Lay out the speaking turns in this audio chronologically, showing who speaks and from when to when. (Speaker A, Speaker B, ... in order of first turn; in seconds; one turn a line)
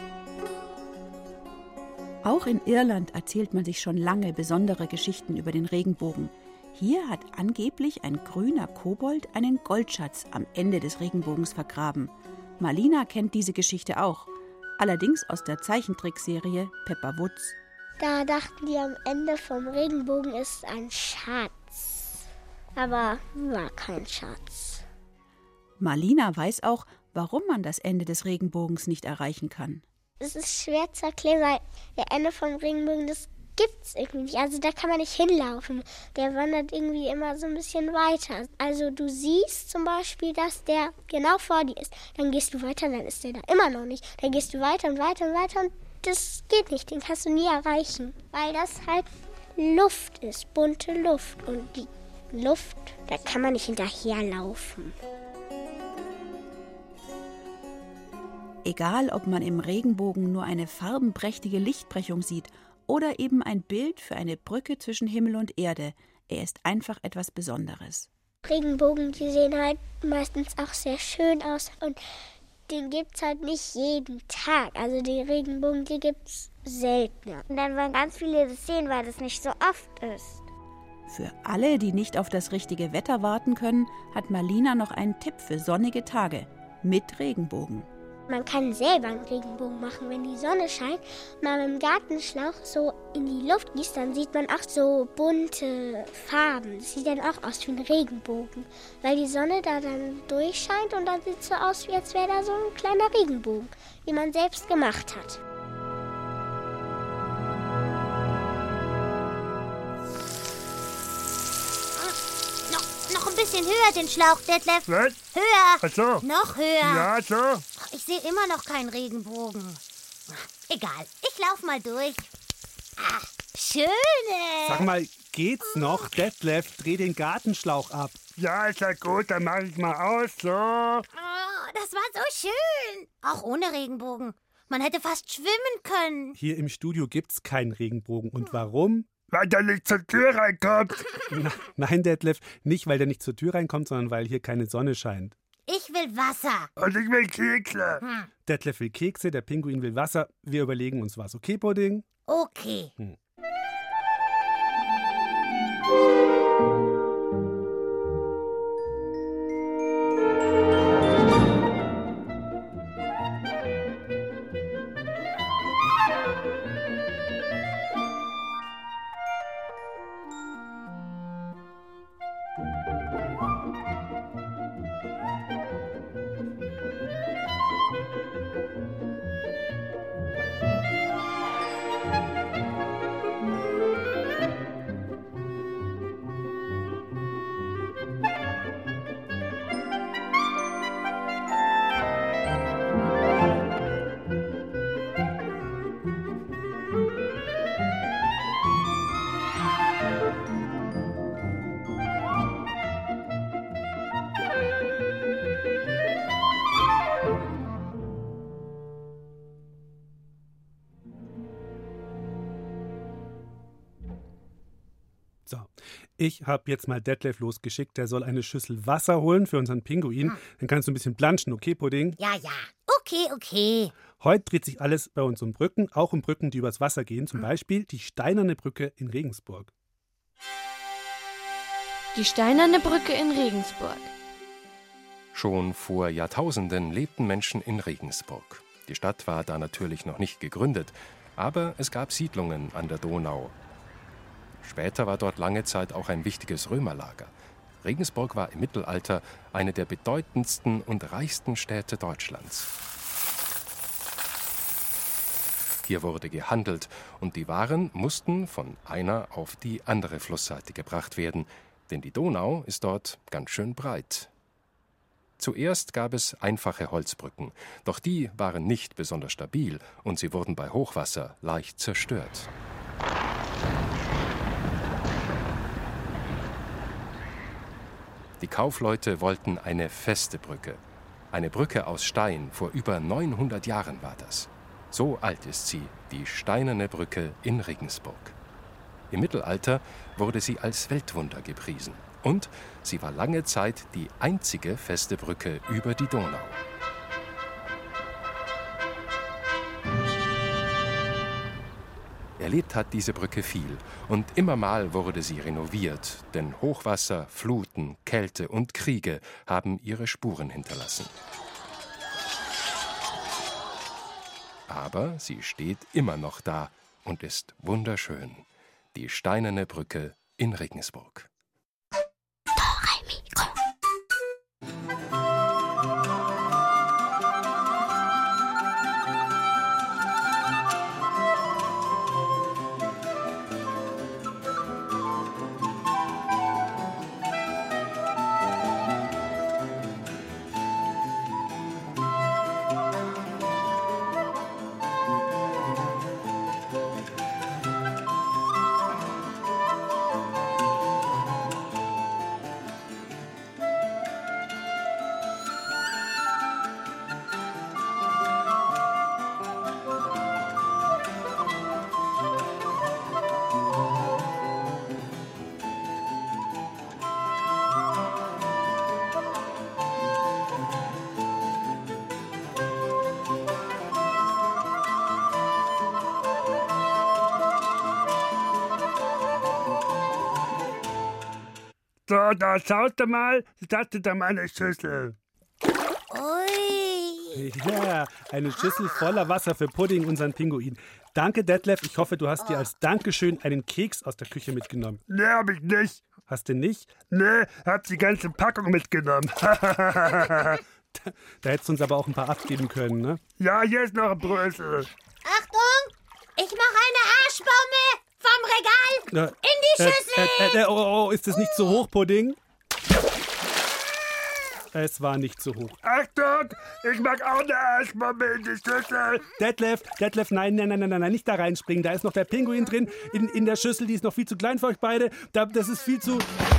Speaker A: 2.2-17.6
Speaker B: 18.0-22.2
Speaker B: 22.8-24.8
Speaker A: 25.8-29.8
Speaker B: 30.2-54.9
Speaker A: 58.6-68.1
Speaker B: 68.4-72.0
Speaker B: 72.7-77.4
Speaker C: 77.5-80.4
Speaker A: 81.1-87.9
Speaker B: 88.3-105.4
Speaker D: 112.7-117.1
Speaker E: 114.9-115.2
Speaker E: 115.8-116.2
Speaker E: 116.8-117.6
Speaker D: 117.8-119.8
Speaker D: 120.3-122.3
Speaker D: 123.0-124.9
Speaker F: 124.6-128.2
Speaker E: 128.4-131.0
Speaker D: 131.1-136.3
Speaker F: 136.3-139.1
Speaker E: 139.3-141.0
Speaker F: 141.3-145.3
Speaker D: 145.7-146.7
Speaker E: 146.8-148.0
Speaker D: 148.0-148.3
Speaker F: 148.4-152.1
Speaker D: 152.3-152.9
Speaker F: 215.5-222.2
Speaker D: 222.2-223.9
Speaker F: 224.2-229.7
Speaker G: 232.1-234.1
Speaker H: 235.3-243.5
Speaker H: 244.6-252.7
Speaker H: 255.8-264.3
Speaker H: 265.4-272.5
Speaker H: 278.4-280.8
Speaker H: 281.3-288.3
Speaker H: 289.1-296.6
Speaker H: 302.4-311.1
Speaker H: 314.7-321.3
Speaker B: 322.5-323.5
Speaker E: 382.1-385.1
Speaker D: 386.1-387.4
Speaker F: 387.3-395.0
Speaker D: 388.6-388.9
Speaker D: 392.4-392.7
Speaker E: 395.1-396.0
Speaker F: 396.3-396.9
Speaker E: 397.0-400.6
Speaker F: 400.9-403.2
Speaker E: 403.4-404.9
Speaker D: 405.2-410.6
Speaker F: 409.1-412.4
Speaker F: 414.7-415.8
Speaker E: 415.8-419.2
Speaker F: 419.4-426.3